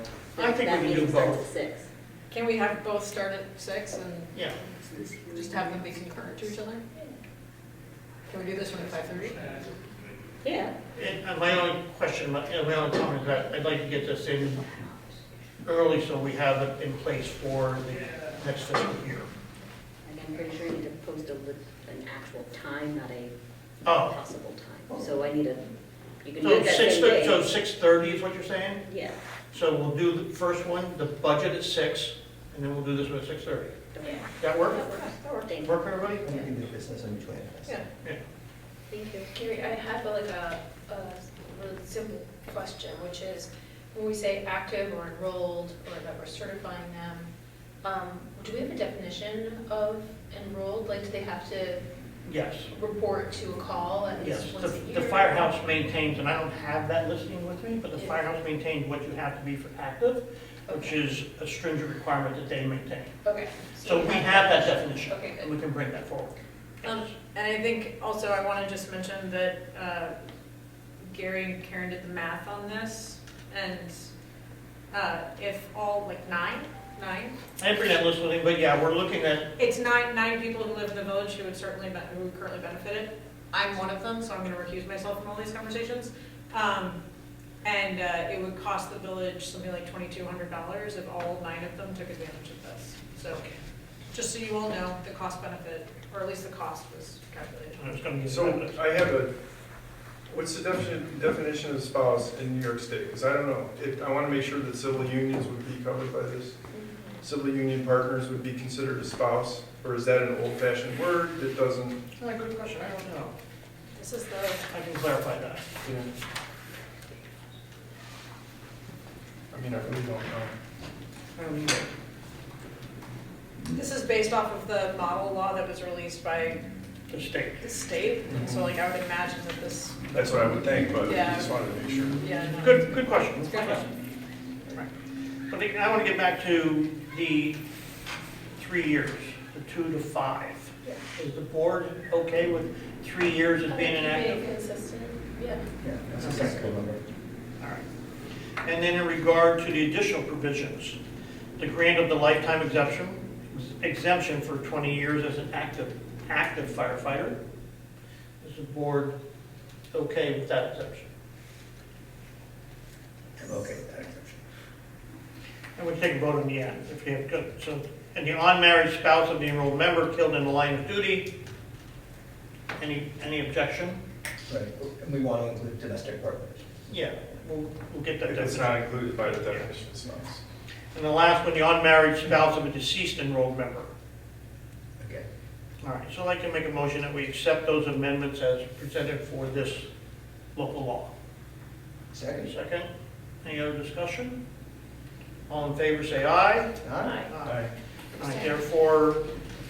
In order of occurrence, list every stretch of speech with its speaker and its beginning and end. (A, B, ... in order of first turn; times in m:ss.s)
0:00.4-0:01.4 A
0:00.4-0:01.9 B
0:02.3-0:04.4 C
0:04.8-0:06.4 B
0:05.1-0:06.8 C
0:08.3-0:09.5 C
0:10.4-0:10.8 B
0:10.9-0:14.6 A
0:15.6-0:19.3 A
0:20.0-0:23.3 B
0:23.8-0:24.1 A
0:24.0-0:25.7 B
0:26.2-0:27.5 B
0:26.4-0:28.8 A
0:28.8-0:29.2 B
0:29.5-0:33.8 A
0:33.9-0:35.8 B
0:34.0-0:35.5 C
0:34.4-0:34.9 A
0:35.6-0:36.2 A
0:36.2-0:37.8 D
0:38.9-0:39.3 B
0:39.3-0:47.3 E
0:47.8-0:51.9 E
0:52.2-0:52.7 A
0:52.7-0:55.5 E
0:54.2-1:03.2 A
1:00.7-1:01.0 E
1:03.2-1:05.5 E
1:03.8-1:07.1 A
1:06.8-1:10.1 C
1:11.1-1:13.9 C
1:14.9-1:17.4 C
1:17.6-1:19.5 A
1:19.6-1:27.0 C
1:27.6-1:33.4 C
1:33.3-1:33.5 A
1:34.1-1:38.4 C
1:37.8-1:38.8 A
1:38.3-1:39.3 F
1:40.3-1:46.6 F
1:46.7-1:47.2 E
1:47.2-1:52.0 F
1:52.2-1:53.3 A
1:53.9-1:54.6 C
1:54.7-1:55.6 A
1:55.8-1:56.1 F
1:59.5-2:00.5 F
2:01.4-2:01.9 A
2:03.7-2:06.6 C
2:07.1-2:07.6 A
2:07.6-2:10.2 C
2:08.3-2:08.7 F
2:10.1-2:12.2 F
2:11.0-2:11.5 C
2:12.2-2:13.9 C
2:12.6-2:13.9 A
2:15.5-2:17.6 A
2:18.6-2:24.5 A
2:23.6-2:25.7 E
2:25.8-2:27.0 D
2:26.2-2:26.6 A
2:27.6-2:27.8 A
2:28.6-2:31.0 A
2:31.6-2:37.4 A
2:38.4-2:39.1 A
2:39.9-2:41.1 A
2:43.4-2:44.4 D
2:45.8-2:51.3 A
2:52.8-2:54.0 A
2:54.5-2:56.6 D
2:56.9-2:59.7 A
2:58.2-3:00.4 F
3:00.9-3:03.9 A
3:05.0-3:05.2 D
3:05.8-3:09.9 A
3:10.5-3:11.1 A
3:12.1-3:12.5 D
3:12.4-3:12.9 A
3:13.4-3:14.4 A
3:15.5-3:16.7 A
3:16.8-3:17.3 D
3:17.3-3:17.6 A
3:17.4-3:17.7 F
3:18.2-3:19.2 A